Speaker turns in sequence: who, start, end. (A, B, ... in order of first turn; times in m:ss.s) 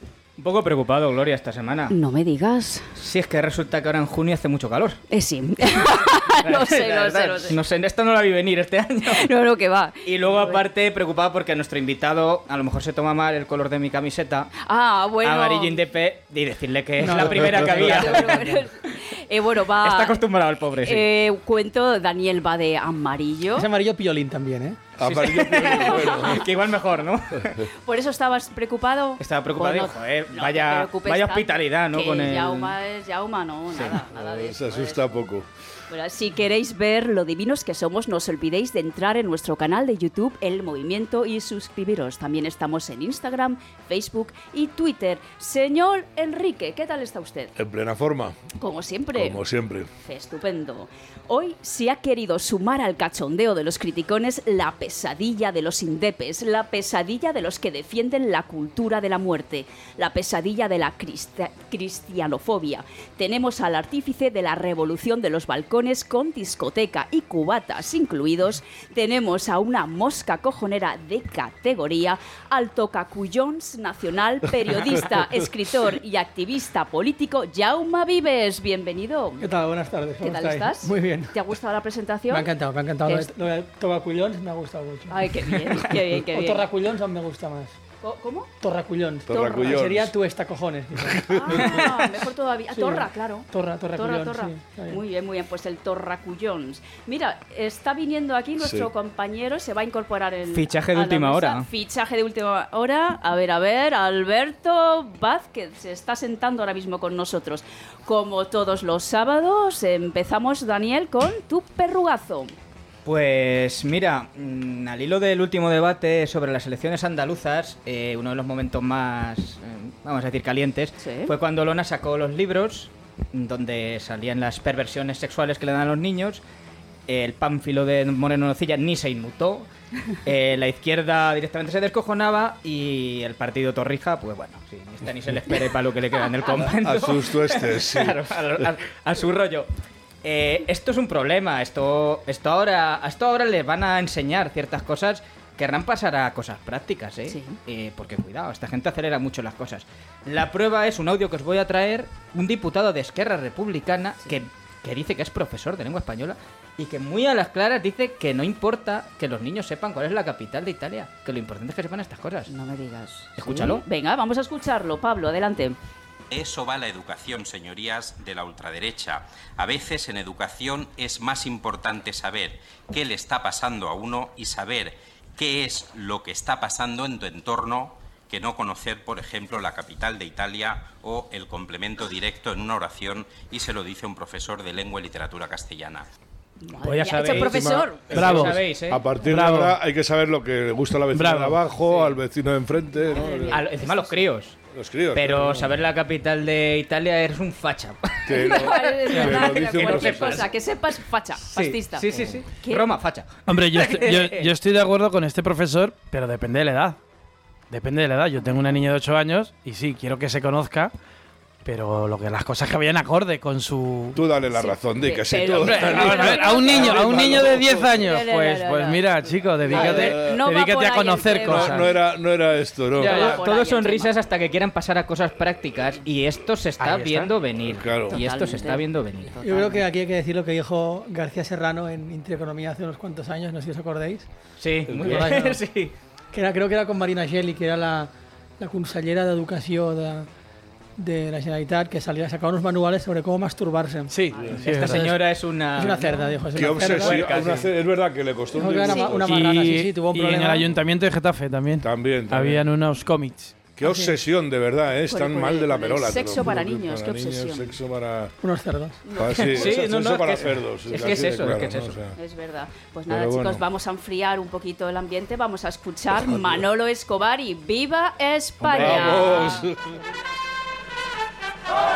0:00.4-0:02.0 A
0:01.9-0:02.9 B
0:02.9-0:05.0 A
0:05.1-0:07.6 B
0:06.4-0:09.3 A
0:09.1-0:10.6 B
0:10.0-0:14.5 A
0:14.6-0:15.8 B
0:15.2-0:18.6 A
0:17.0-0:18.6 C
0:17.7-0:20.2 B
0:19.8-0:21.1 A
0:20.8-0:23.7 B
0:23.6-0:24.8 C
0:25.0-0:26.5 D
0:25.0-0:27.6 A
0:25.6-0:26.4 B
0:27.8-0:35.2 B
0:29.2-0:32.8 A
0:33.7-0:34.0 A
0:34.2-0:35.5 D
0:35.9-0:47.5 B
0:47.6-0:48.4 D
0:48.6-0:49.4 B
0:49.2-0:49.9 D
0:50.0-1:19.4 B
1:19.4-1:21.4 C
1:20.2-1:22.5 B
1:22.3-1:25.3 C
1:25.1-1:26.7 B
1:26.1-1:27.8 C
1:28.0-1:28.5 B
1:28.6-1:31.9 C
1:29.3-1:30.1 D
1:29.3-1:29.8 B
1:31.0-1:31.8 D
1:31.3-1:52.5 B
1:32.7-1:35.0 C
1:38.6-1:38.9 D
1:40.5-1:41.7 A
1:53.0-2:06.4 A
2:01.0-2:01.3 B
2:07.1-2:09.7 A
2:10.2-2:19.7 A
2:16.8-2:18.6 D
2:20.2-2:42.5 A
2:27.3-2:27.6 B
2:42.5-2:45.8 B
2:43.4-2:43.8 A
2:46.3-3:06.1 E
3:06.6-3:08.1 B
3:06.8-3:07.5 F
3:07.2-3:09.1 A
3:07.3-3:13.7 D
3:08.1-3:08.6 F
3:09.2-3:09.8 F
3:11.1-3:11.6 F
3:11.9-3:12.2 A
3:13.1-3:14.2 B
3:13.4-3:14.6 A
3:14.7-3:15.8 D
3:15.1-3:20.5 A
3:18.3-3:20.5 D
3:18.4-3:22.1 B
3:21.5-3:24.5 A
3:22.6-3:22.9 B
3:23.5-3:27.0 F
3:27.7-3:30.9 F
3:31.6-3:34.2 F
3:34.1-3:37.9 D
3:34.5-3:39.0 B
3:35.6-3:41.9 F
3:39.6-3:42.0 B
3:39.7-3:40.4 D
3:41.4-3:43.2 D
3:43.0-3:49.4 A
3:43.0-3:44.1 B
3:43.1-3:43.4 F
3:47.7-3:48.2 D
3:48.1-3:49.8 B
3:49.4-3:54.3 C
3:54.6-3:55.9 A
3:54.9-3:55.3 D
3:55.0-3:55.6 C
3:56.3-4:00.3 C
4:01.0-4:04.1 C
4:04.1-4:05.2 F
4:04.5-4:07.7 A
4:05.7-4:07.4 C
4:06.5-4:09.4 D
4:08.5-4:10.7 C
4:08.8-4:09.3 B
4:09.2-4:13.7 F
4:11.8-4:12.6 D
4:13.7-4:18.4 D
4:13.8-4:14.2 C
4:15.1-4:17.8 B
4:18.4-4:19.0 C
4:19.0-4:19.8 B
4:19.2-4:22.2 D
4:19.3-4:22.0 A
4:22.2-4:29.7 B
4:23.1-4:23.6 D
4:26.3-4:26.6 D
4:28.6-4:29.5 A
4:28.7-4:30.0 D